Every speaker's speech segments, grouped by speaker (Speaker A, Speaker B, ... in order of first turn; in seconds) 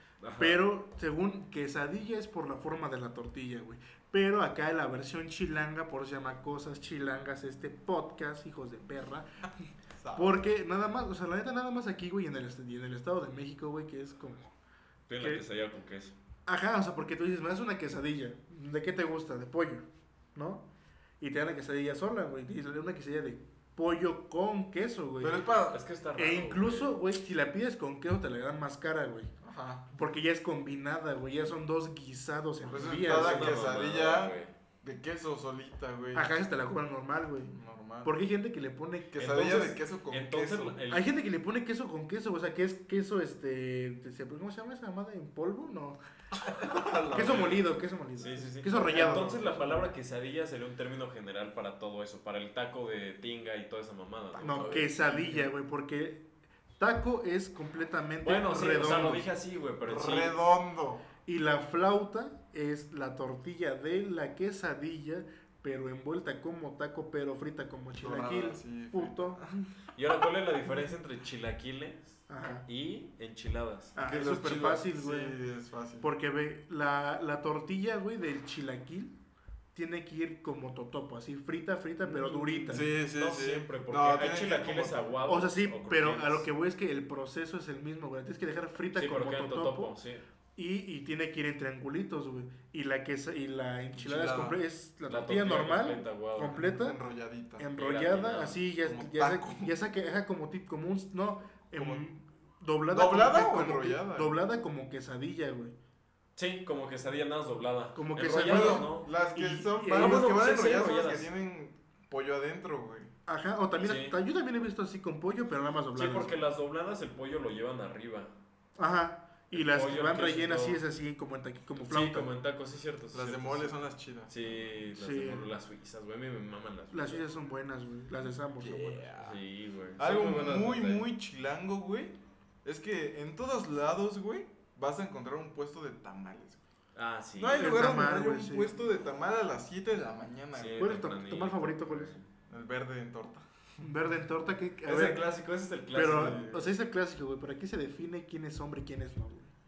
Speaker A: 0.2-0.6, 15.1-16.1, 25.7-27.0, 32.8-34.5, 39.2-41.1, 46.6-55.5, 58.2-60.4, 69.9-74.0, 82.0-86.5, 89.0-90.2, 95.1-96.6, 97.7-98.6, 106.3-109.1, 109.9-111.3, 113.8-114.1, 115.9-118.3, 119.5-120.8, 121.8-123.7, 124.3-127.2, 129.2-131.1, 136.9-137.9, 140.6-142.2, 144.8-146.6
Speaker B: 0.4-9.3, 10.2-14.5, 15.2-15.4, 16.5-20.6, 21.2-25.4, 26.1-29.3, 29.9-33.6, 36.1-39.1, 40.9-46.0, 47.1-49.7, 54.4-56.2, 56.8-59.2, 61.2-69.6, 72.3-72.6, 74.0-75.4, 76.0-79.1, 79.7-82.8, 85.3-89.9, 90.5-97.0, 97.6-105.7, 107.9-110.3, 113.3-116.3, 118.8-122.3, 125.0-125.5, 126.9-129.1, 137.6-138.7, 140.8-142.1, 143.8-145.2, 145.9-149.5
Speaker C: 9.9-10.4, 25.2-25.8, 29.4-29.9, 32.6-36.3, 37.5-38.1, 39.1-40.8, 48.8-49.5, 59.8-61.0, 68.0-69.5, 74.0-76.1, 82.7-85.1, 94.0-94.6, 96.5-97.6, 98.8-99.7, 101.7-102.0, 102.9-104.3, 108.4-113.1, 123.1-124.5, 128.6-129.4, 130.0-136.6, 137.4-140.9, 142.5-143.4, 146.1-146.6